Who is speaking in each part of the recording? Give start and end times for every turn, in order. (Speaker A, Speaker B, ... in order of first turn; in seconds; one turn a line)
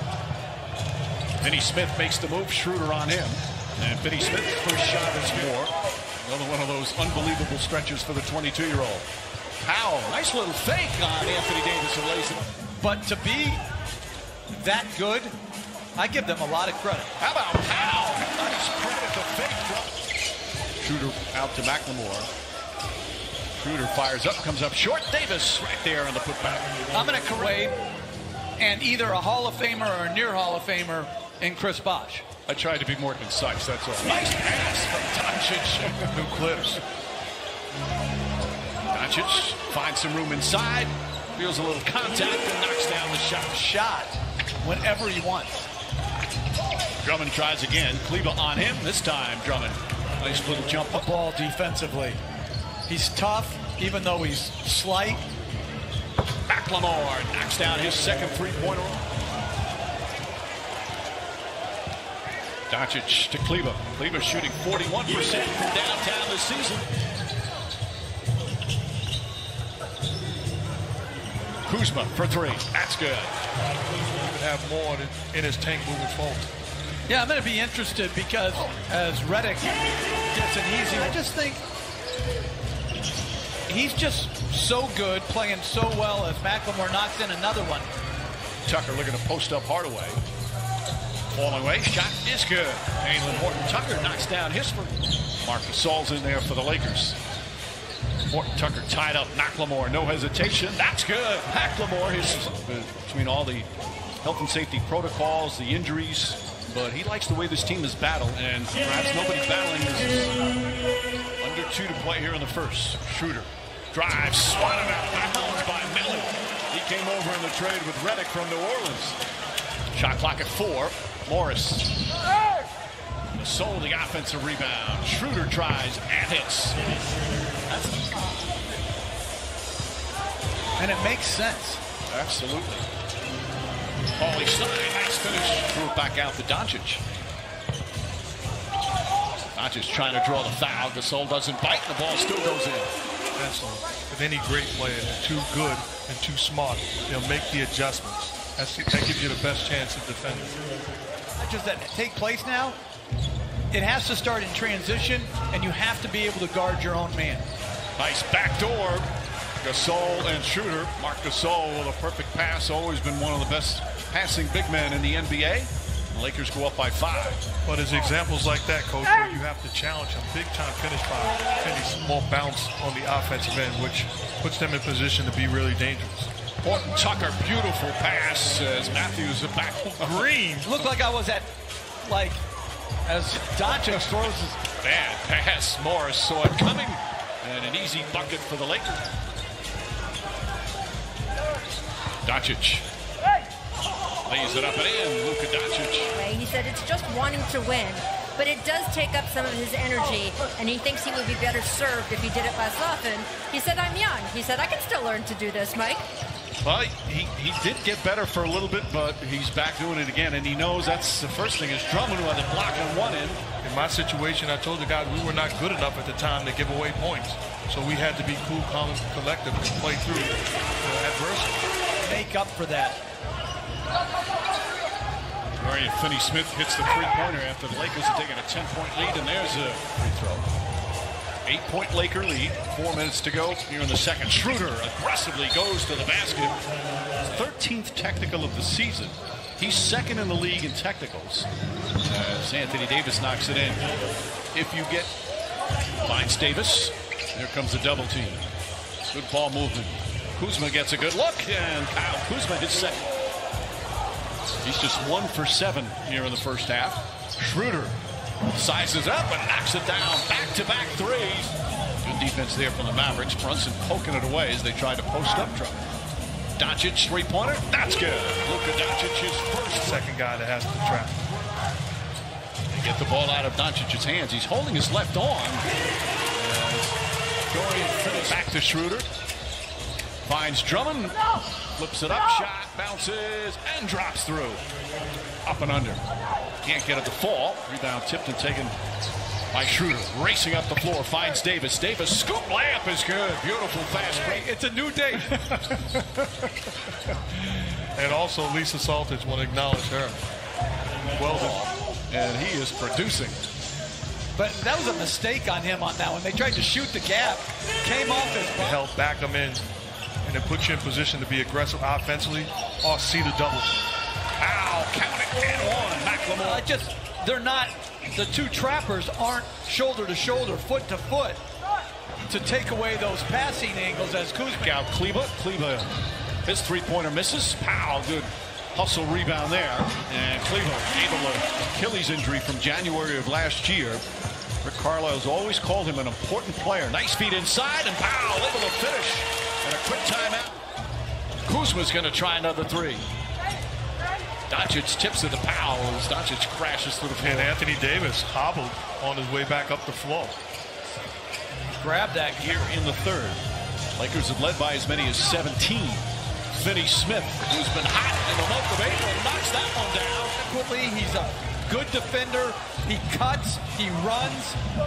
Speaker A: 1.4-9.1
Speaker A: 9.6-12.5
Speaker B: 12.8-13.6
Speaker B: 14.5-15.3
Speaker B: 15.9-17.1
Speaker A: 17.2-19.9
Speaker A: 20.8-22.3
Speaker A: 23.5-26.7
Speaker B: 26.9-27.8
Speaker B: 28.6-32.2
Speaker A: 32.5-36.2
Speaker C: 36.1-36.8
Speaker A: 38.9-43.6
Speaker B: 43.5-45.6
Speaker A: 47.0-51.1
Speaker B: 50.9-52.2
Speaker B: 52.9-55.2
Speaker A: 56.5-59.0
Speaker A: 62.7-66.8
Speaker A: 71.6-73.4
Speaker C: 74.2-76.5
Speaker B: 77.1-81.6
Speaker B: 83.7-87.9
Speaker A: 88.7-90.2
Speaker A: 91.3-97.2
Speaker A: 98.3-103.7
Speaker A: 104.2-110.3
Speaker A: 111.4-119.2
Speaker A: 119.9-121.9
Speaker A: 123.3-126.8
Speaker B: 127.7-128.4
Speaker B: 130.8-131.8
Speaker A: 132.1-132.8
Speaker A: 134.2-137.0
Speaker A: 139.5-142.9
Speaker C: 143.3-150.6
Speaker B: 151.4-152.8
Speaker B: 153.7-157.4
Speaker A: 158.0-159.1
Speaker A: 159.6-167.4
Speaker C: 167.6-176.3
Speaker A: 176.6-180.3
Speaker C: 180.0-180.7
Speaker B: 180.6-181.5
Speaker B: 182.0-182.4
Speaker B: 183.0-184.6
Speaker A: 184.8-189.1
Speaker A: 192.2-192.8
Speaker A: 194.2-196.1
Speaker D: 196.1-206.0
Speaker A: 206.6-213.4
Speaker C: 213.6-221.7
Speaker B: 222.0-223.0
Speaker A: 225.6-230.4
Speaker A: 231.4-236.6
Speaker A: 237.2-241.5
Speaker A: 242.0-243.9
Speaker A: 244.5-245.1
Speaker A: 246.0-248.4
Speaker A: 249.1-253.1
Speaker A: 254.6-258.0
Speaker A: 258.5-265.8
Speaker A: 266.6-270.0
Speaker C: 269.9-271.2
Speaker A: 272.7-275.7
Speaker A: 276.3-277.0
Speaker A: 277.5-279.1
Speaker A: 280.2-281.2
Speaker A: 281.8-284.6
Speaker A: 285.4-286.0
Speaker A: 286.6-288.7
Speaker A: 289.5-294.5
Speaker B: 294.2-295.7
Speaker C: 297.9-300.2
Speaker A: 301.1-303.4
Speaker B: 304.4-308.8
Speaker C: 308.6-309.6
Speaker C: 310.2-313.9
Speaker A: 314.3-316.6
Speaker B: 316.4-321.4
Speaker B: 322.3-324.8
Speaker A: 324.5-325.9
Speaker A: 326.4-334.0
Speaker A: 334.6-340.6
Speaker A: 341.4-343.1
Speaker A: 344.5-347.5
Speaker C: 347.2-350.4
Speaker B: 351.7-352.5
Speaker A: 352.3-353.4
Speaker A: 353.9-360.4
Speaker B: 360.4-364.6